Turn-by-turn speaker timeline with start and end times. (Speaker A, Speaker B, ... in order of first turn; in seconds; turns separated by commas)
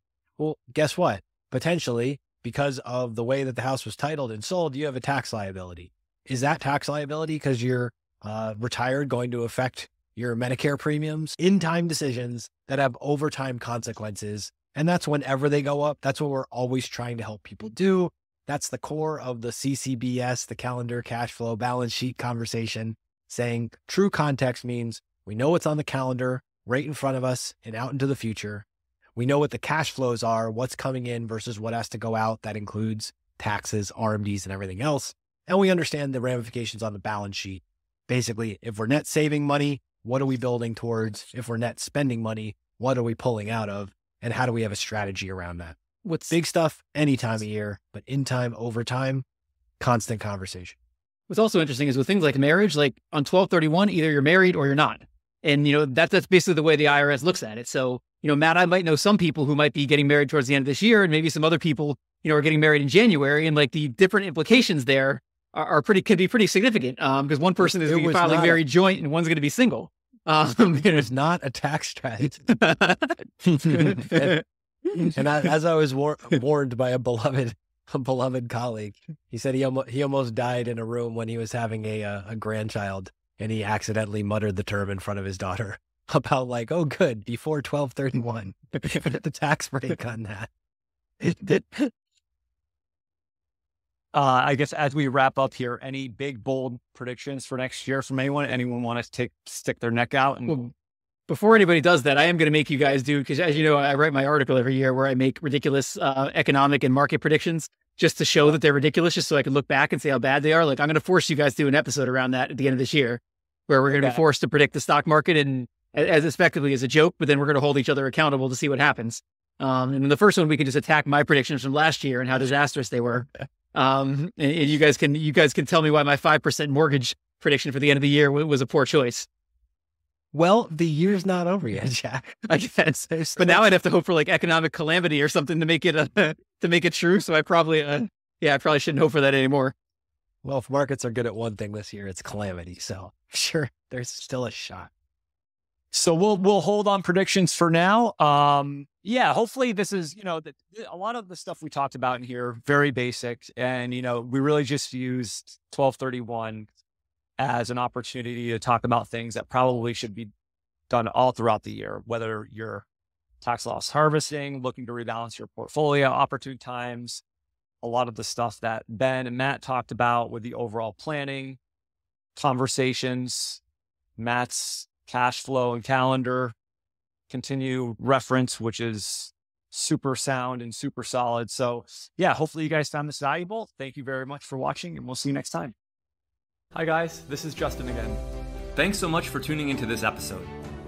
Speaker A: 0.4-45.8, Speaker B: 46.0-46.3, Speaker A: 46.3-49.2, Speaker A: 49.8-50.8, Speaker B: 51.3-71.0, Speaker A: 67.7-68.6, Speaker A: 70.7-72.5, Speaker B: 72.5-74.4, Speaker A: 73.8-74.4, Speaker A: 75.1-90.5, Speaker A: 91.2-91.9, Speaker C: 94.1-100.6, Speaker B: 101.3-129.3, Speaker C: 113.9-114.2, Speaker A: 130.3-133.7, Speaker B: 133.4-139.7, Speaker A: 140.4-144.9, Speaker C: 145.9-156.7, Speaker C: 157.4-160.3, Speaker C: 160.9-162.8, Speaker C: 163.4-167.2, Speaker C: 167.8-171.6, Speaker C: 172.3-173.6, Speaker C: 174.2-176.5, Speaker C: 177.3-185.7, Speaker D: 186.7-188.2, Speaker D: 188.7-190.5